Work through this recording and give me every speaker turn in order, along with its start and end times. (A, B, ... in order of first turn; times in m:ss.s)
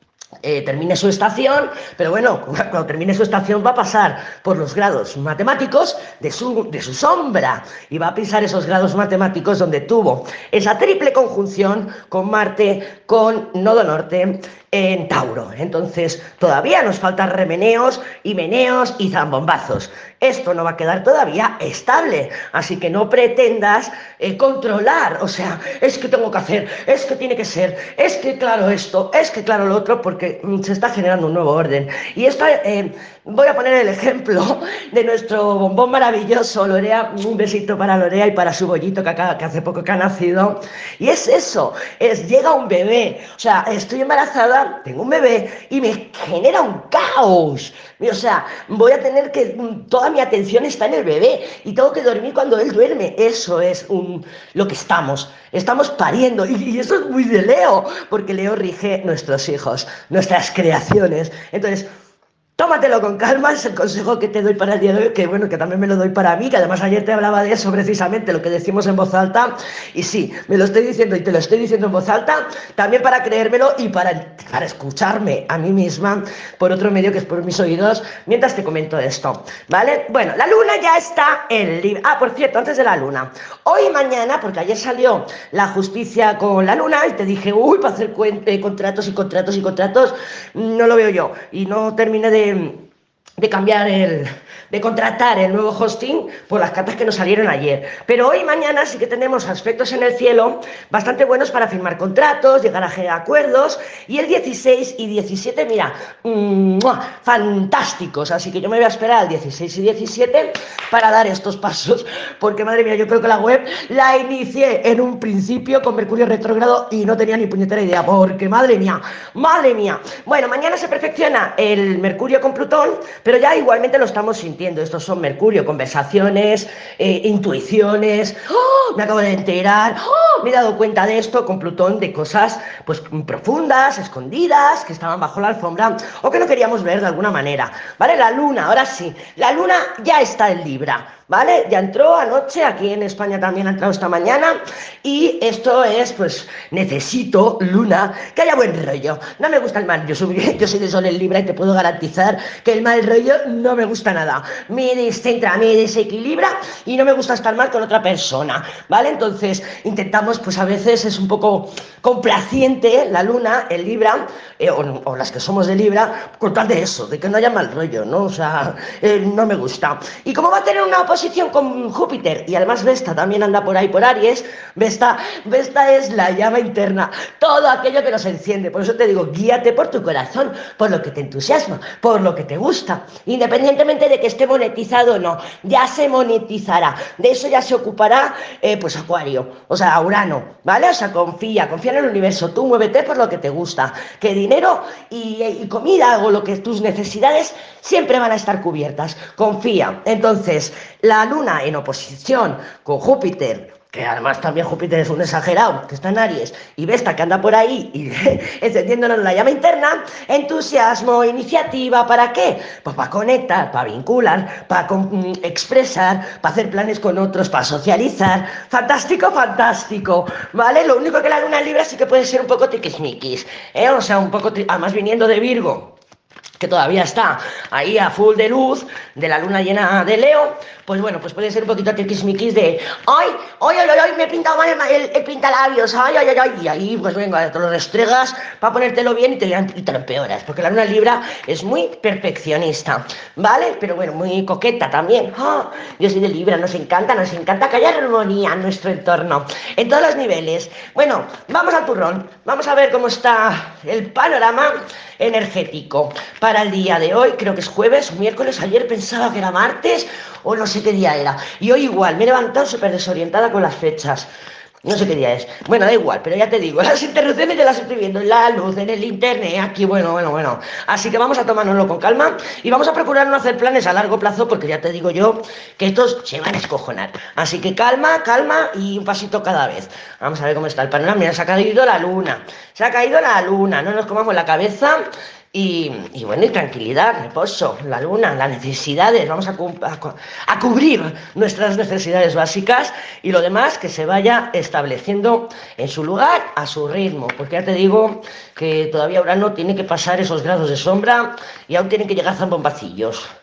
0:00.4-1:01.9 A
1:02.6-1:32.9 A
1:33.4-3:46.0 A
3:46.6-4:24.3 A
4:24.8-4:45.0 A
4:45.5-5:03.3 A